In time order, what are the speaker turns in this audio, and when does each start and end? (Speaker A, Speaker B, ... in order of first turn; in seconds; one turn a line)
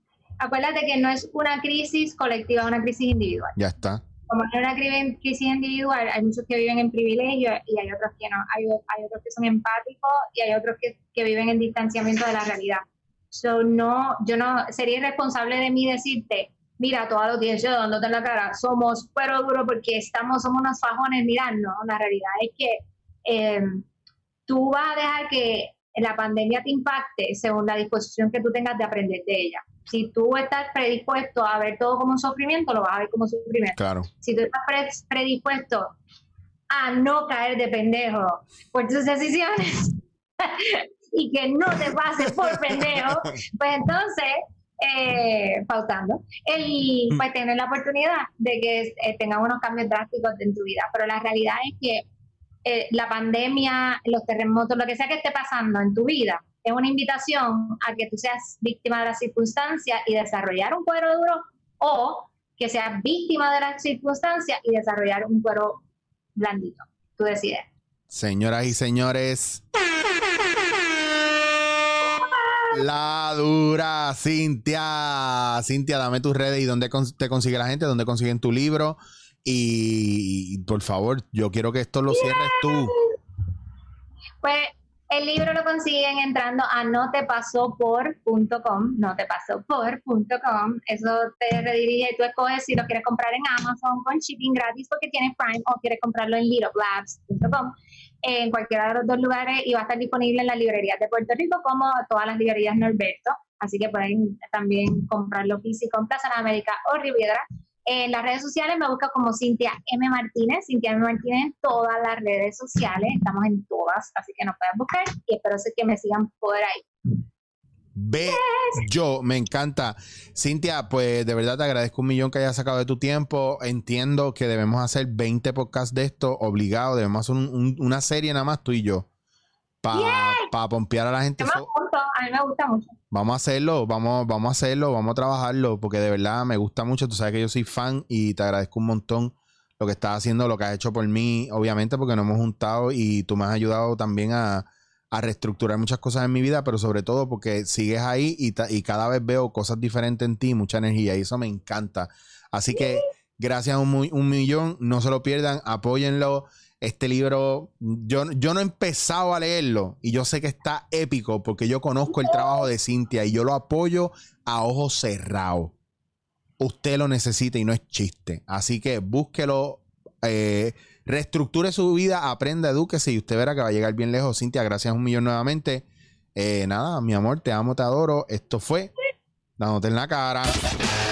Speaker A: 0.4-3.5
Speaker B: 3.5-4.0
Speaker A: 4.3-23.8
Speaker A: 24.5-35.9
Speaker B: 33.8-34.1
Speaker A: 36.7-52.0
Speaker B: 42.3-43.3
Speaker A: 52.6-65.8
Speaker A: 66.4-67.7
Speaker B: 68.1-69.6
Speaker A: 72.0-72.8
Speaker B: 72.7-82.9
Speaker A: 82.1-83.0
Speaker A: 84.4-97.7
Speaker A: 98.2-116.9
Speaker B: 118.0-129.1
Speaker A: 118.3-118.8
Speaker B: 129.8-131.7
Speaker A: 129.9-130.5
Speaker A: 131.4-132.9
Speaker B: 133.1-165.7
Speaker A: 152.7-153.0
Speaker A: 162.1-162.6
Speaker B: 166.6-178.9
Speaker B: 179.6-180.6